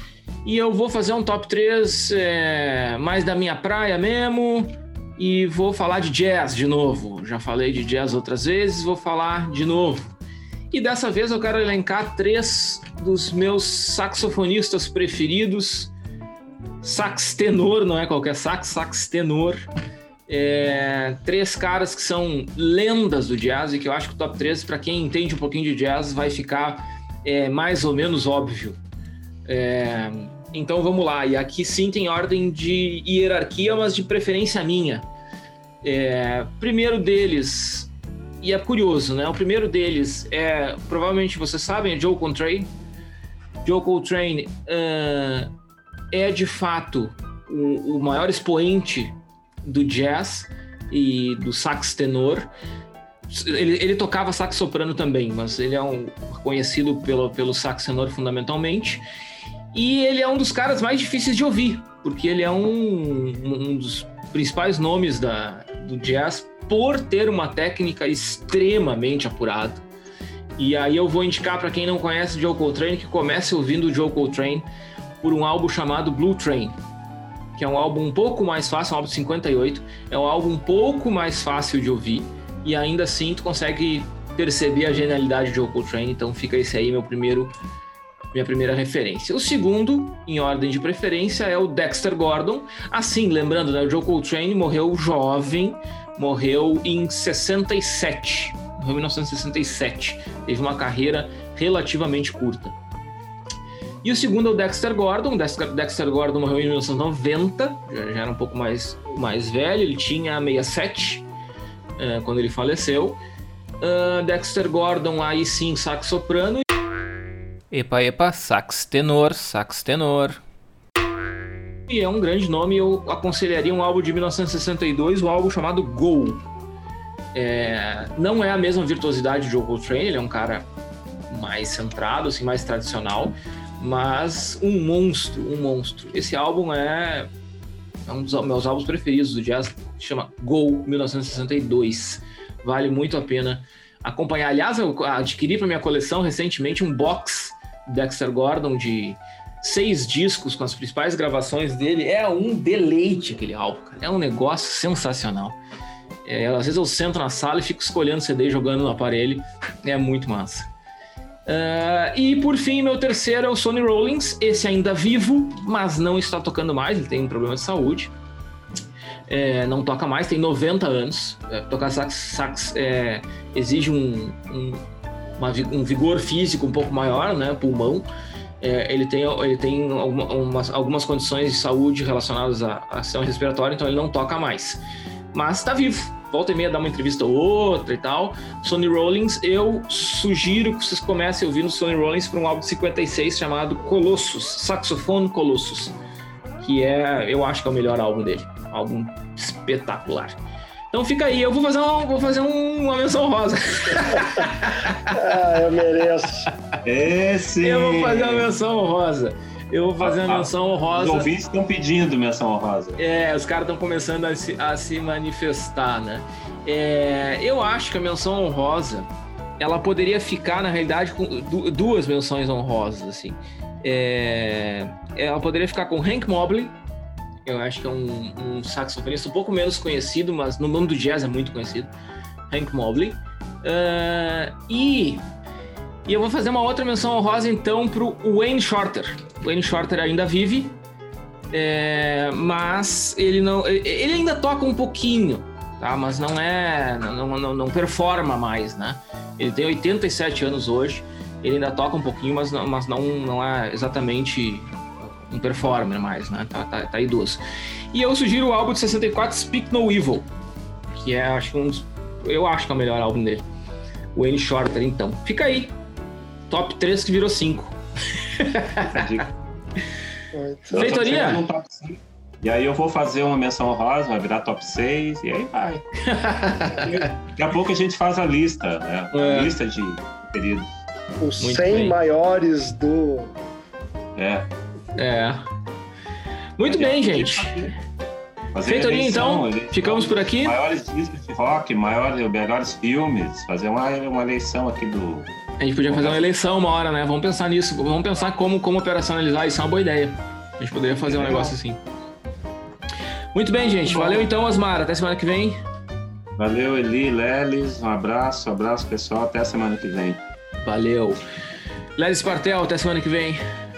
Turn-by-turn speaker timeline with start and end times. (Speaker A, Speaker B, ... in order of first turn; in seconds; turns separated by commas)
Speaker A: 0.4-10.1, Speaker A: 10.7-15.9, Speaker A: 16.8-19.7, Speaker A: 20.3-28.8, Speaker A: 29.4-35.1, Speaker A: 35.8-42.7, Speaker A: 43.6-45.5, Speaker A: 46.1-52.5, Speaker A: 53.3-59.0, Speaker A: 59.7-69.8, Speaker A: 70.6-74.7, Speaker A: 75.2-76.8, Speaker A: 77.5-87.5, Speaker A: 88.3-102.8, Speaker A: 104.0-111.2, Speaker A: 112.0-113.2, Speaker A: 113.8-116.6, Speaker A: 117.7-120.4, Speaker A: 121.9-126.4, Speaker A: 127.3-130.7, Speaker A: 131.3-137.3, Speaker A: 138.1-155.6, Speaker A: 156.2-160.7, Speaker A: 161.4-168.1, Speaker A: 169.3-174.8, Speaker A: 175.4-178.1, Speaker A: 178.6-184.8, Speaker A: 185.3-195.9, Speaker A: 196.6-200.4, Speaker A: 200.9-205.1, Speaker B: 205.1-206.5, Speaker C: 206.8-208.5, Speaker A: 207.6-211.3, Speaker C: 210.0-213.0, Speaker A: 213.0-226.8, Speaker A: 227.4-231.9, Speaker A: 232.5-235.3, Speaker A: 236.0-240.7, Speaker A: 241.5-260.3, Speaker A: 260.9-263.5, Speaker A: 264.1-265.7, Speaker A: 266.5-269.1, Speaker C: 268.8-269.3, Speaker B: 270.3-271.3, Speaker C: 270.7-275.8, Speaker A: 270.7-271.4, Speaker A: 276.0-277.1, Speaker C: 276.7-280.7, Speaker A: 279.1-279.5, Speaker B: 281.2-283.4, Speaker A: 281.4-282.0, Speaker C: 284.1-284.5, Speaker A: 284.9-285.5, Speaker A: 286.6-287.6, Speaker C: 286.6-287.7, Speaker C: 288.5-295.3, Speaker A: 288.7-290.6, Speaker A: 295.6-301.8, Speaker C: 295.9-296.3, Speaker C: 301.0-301.5, Speaker A: 303.3-305.6, Speaker C: 303.9-304.2, Speaker C: 306.4-310.2, Speaker A: 310.6-311.2, Speaker A: 311.9-313.4